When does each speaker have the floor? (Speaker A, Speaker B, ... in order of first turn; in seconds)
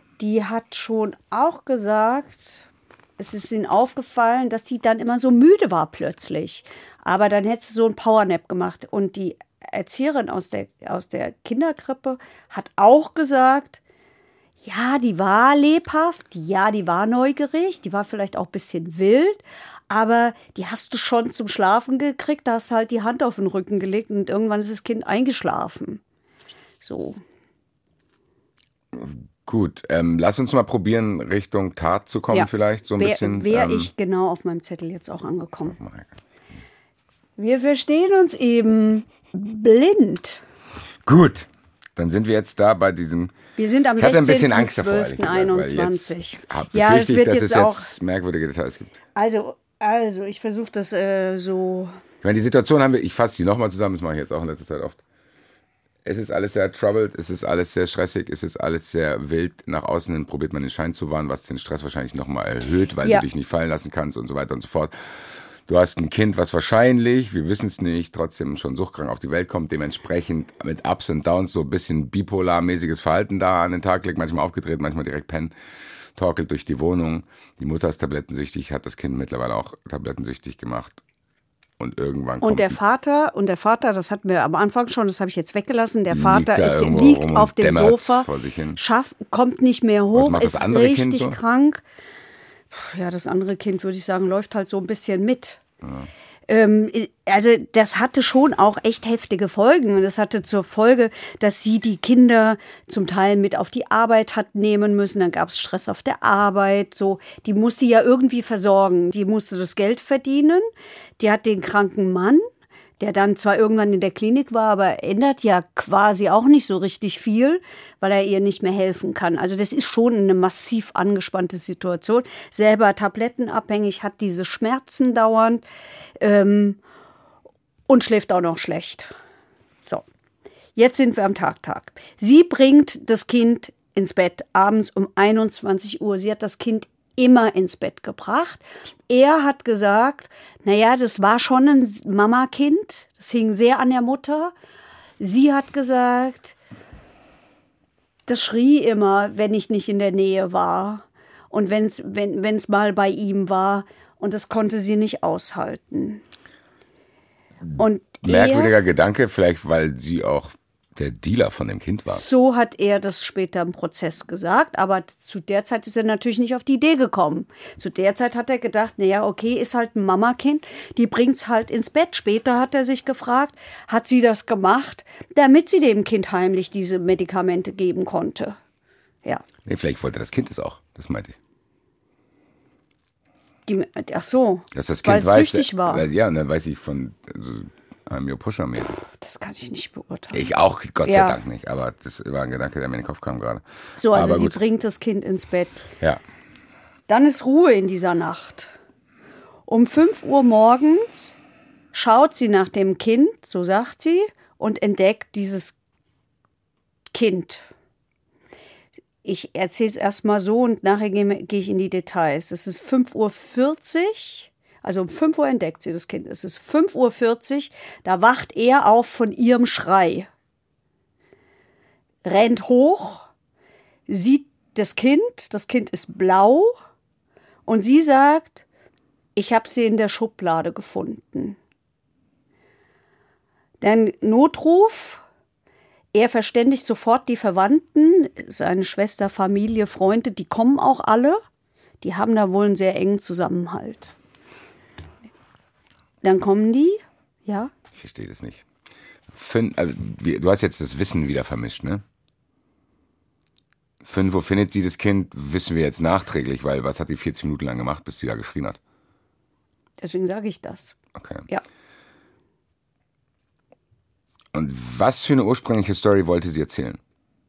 Speaker A: 0.2-2.6, 3.2-13.8, 14.6-26.0, 26.8-27.2, 32.3-35.8, 37.4-40.4, 43.6-48.0, 49.2-51.9, 82.4-91.8, 92.7-95.6, 96.5-110.7, 111.2-112.5, 113.0-125.6, 126.2-126.8, 127.9-129.2, 130.8-144.5, 145.2-146.6, 148.3-156.2, 157.8-158.7, 162.1-178.6, 183.7-186.1, 189.1-190.5, 191.0-191.4, 194.0-195.9, 197.1-198.8, 199.7-201.4, 201.9-205.8, 207.1-207.7, 209.2-220.3, 222.2-223.3, 224.1-226.7, 227.7-228.6, 229.4-231.6, 233.8-235.2, 236.1-241.4, 242.0-244.1, 246.2-247.7, 260.0-260.9
Speaker B: 28.9-33.9, 35.7-36.1, 41.1-43.3, 44.0-49.0, 52.2-55.0, 56.0-75.5, 76.2-81.0, 81.8-82.8, 86.1-88.8, 90.1-91.4, 95.8-96.1, 157.8-162.2, 179.7-181.4, 184.7-189.0, 190.3-194.6, 247.9-248.6, 249.3-252.0, 254.0-258.8, 261.2-261.5, 264.5-267.0